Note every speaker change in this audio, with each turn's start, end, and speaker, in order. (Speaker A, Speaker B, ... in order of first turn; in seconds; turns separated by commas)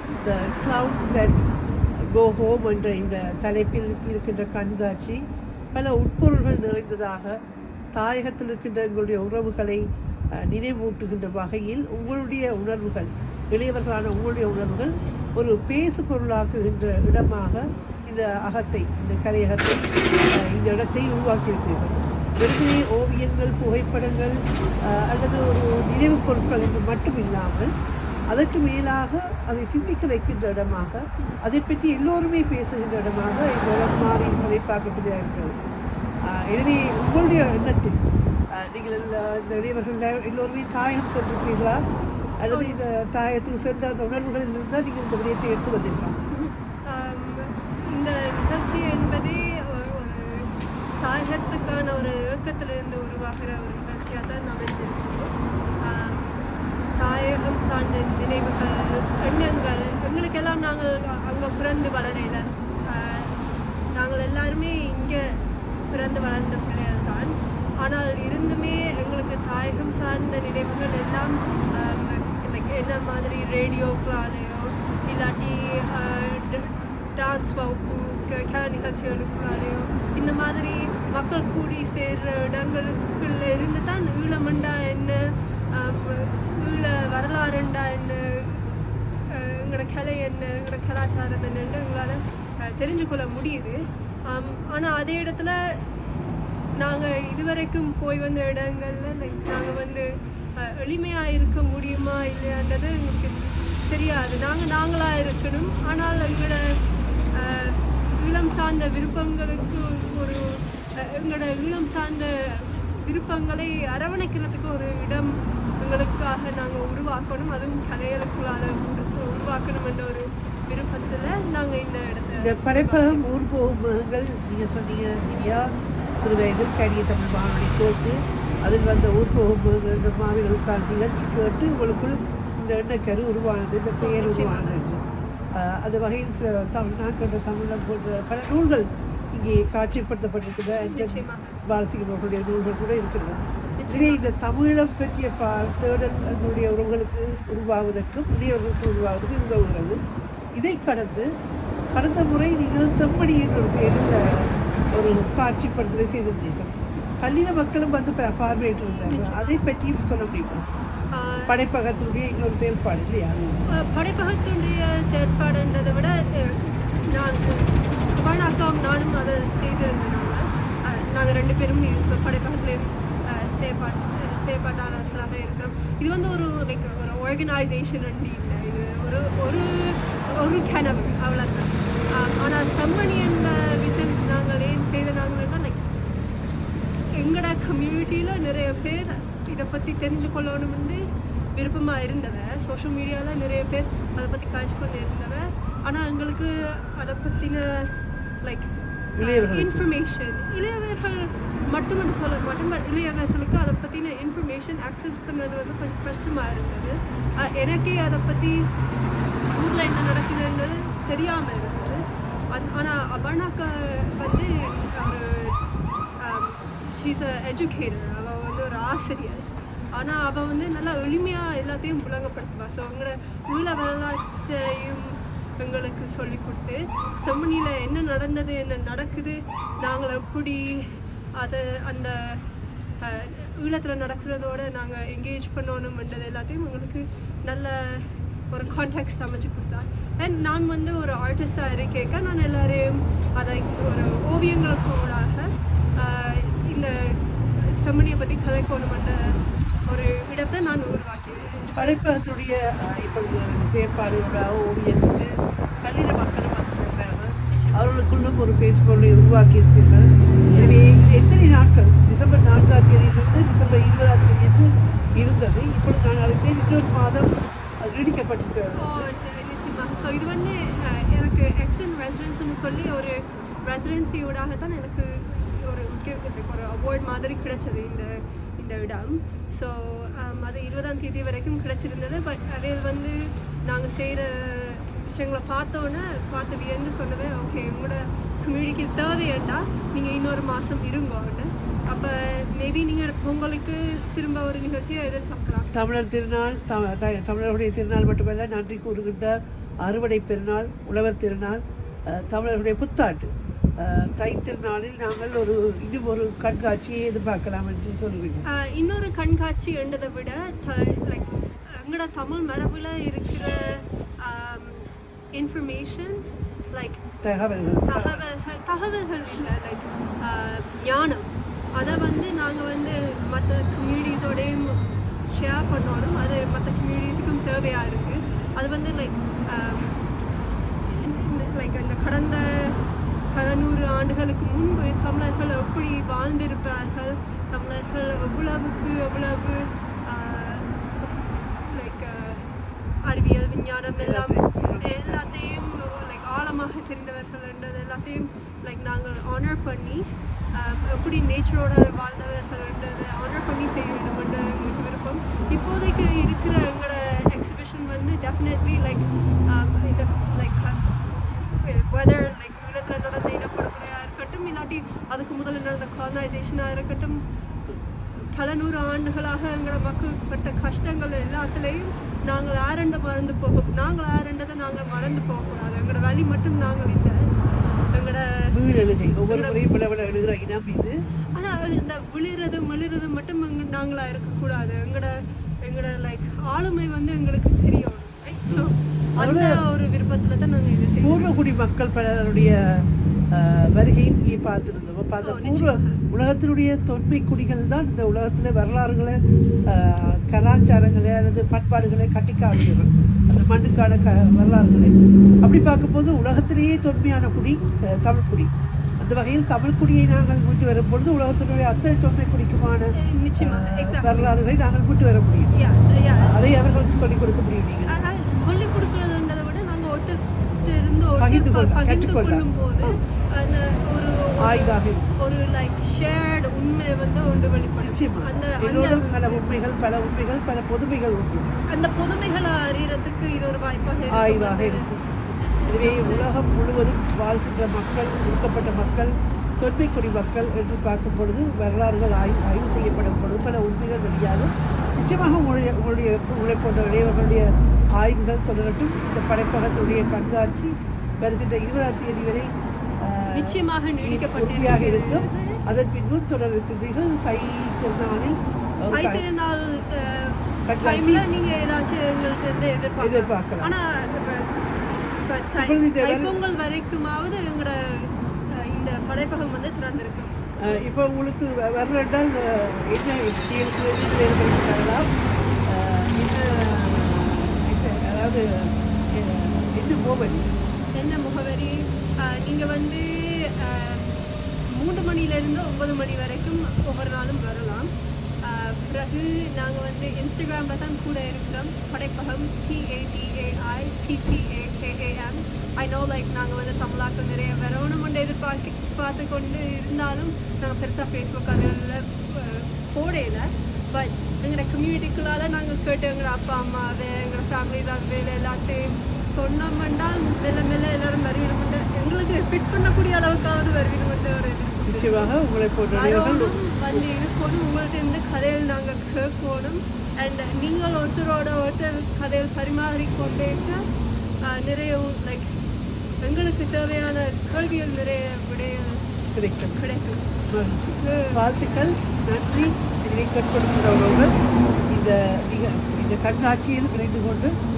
Speaker A: 0.2-1.4, Speaker A: 2.1-5.2, Speaker A: 5.7-7.3, Speaker A: 7.9-9.8, Speaker A: 10.4-19.9, Speaker A: 20.4-24.4, Speaker A: 24.9-27.7, Speaker A: 28.3-35.5, Speaker A: 36.3-38.0, Speaker A: 38.5-41.8, Speaker A: 42.4-46.2, Speaker B: 42.5-42.9, Speaker B: 46.3-95.9, Speaker B: 96.8-106.8, Speaker B: 107.3-123.2, Speaker A: 122.4-135.0, Speaker B: 134.0-134.8, Speaker A: 135.6-150.0, Speaker B: 140.8-141.6, Speaker B: 143.8-144.3, Speaker A: 150.6-151.3, Speaker A: 151.9-160.7, Speaker B: 159.1-159.6, Speaker B: 161.1-161.6, Speaker A: 161.5-163.7, Speaker B: 163.7-185.8, Speaker B: 187.2-191.0, Speaker B: 191.5-198.7, Speaker A: 199.2-199.9, Speaker B: 199.2-208.7, Speaker B: 209.5-215.6, Speaker B: 216.2-232.5, Speaker B: 233.0-252.0, Speaker A: 251.8-255.3, Speaker A: 255.8-267.3, Speaker B: 257.5-257.9, Speaker B: 260.5-260.8, Speaker A: 267.8-269.0, Speaker B: 268.8-295.7, Speaker A: 295.7-303.3, Speaker A: 303.8-308.4, Speaker B: 308.5-317.0, Speaker A: 317.2-318.2, Speaker B: 317.9-330.0, Speaker B: 330.8-342.5, Speaker B: 343.0-377.3, Speaker A: 344.0-345.2, Speaker B: 377.9-378.5, Speaker A: 378.5-380.9, Speaker B: 379.3-379.6, Speaker B: 381.3-391.2, Speaker A: 388.5-389.6, Speaker A: 391.0-392.5, Speaker A: 393.3-399.2, Speaker B: 395.2-396.0, Speaker A: 399.7-415.5, Speaker B: 412.9-414.3, Speaker B: 415.5-416.5, Speaker A: 416.2-418.0, Speaker B: 417.9-429.4, Speaker A: 421.2-422.9, Speaker A: 424.4-425.1, Speaker A: 427.8-431.5, Speaker B: 431.7-436.3, Speaker A: 434.1-434.9, Speaker A: 435.7-459.2, Speaker B: 453.3-455.6, Speaker B: 458.9-470.8, Speaker A: 460.7-461.2, Speaker A: 463.0-463.7, Speaker A: 465.6-466.4, Speaker A: 470.6-475.1, Speaker A: 475.7-480.5, Speaker B: 480.9-487.9, Speaker B: 488.4-515.4, Speaker A: 514.9-516.6, Speaker B: 515.9-523.8, Speaker B: 524.4-525.5, Speaker B: 526.2-529.0, Speaker A: 529.4-529.8, Speaker B: 529.8-530.4, Speaker A: 530.5-534.3, Speaker B: 531.0-531.9, Speaker A: 534.9-537.5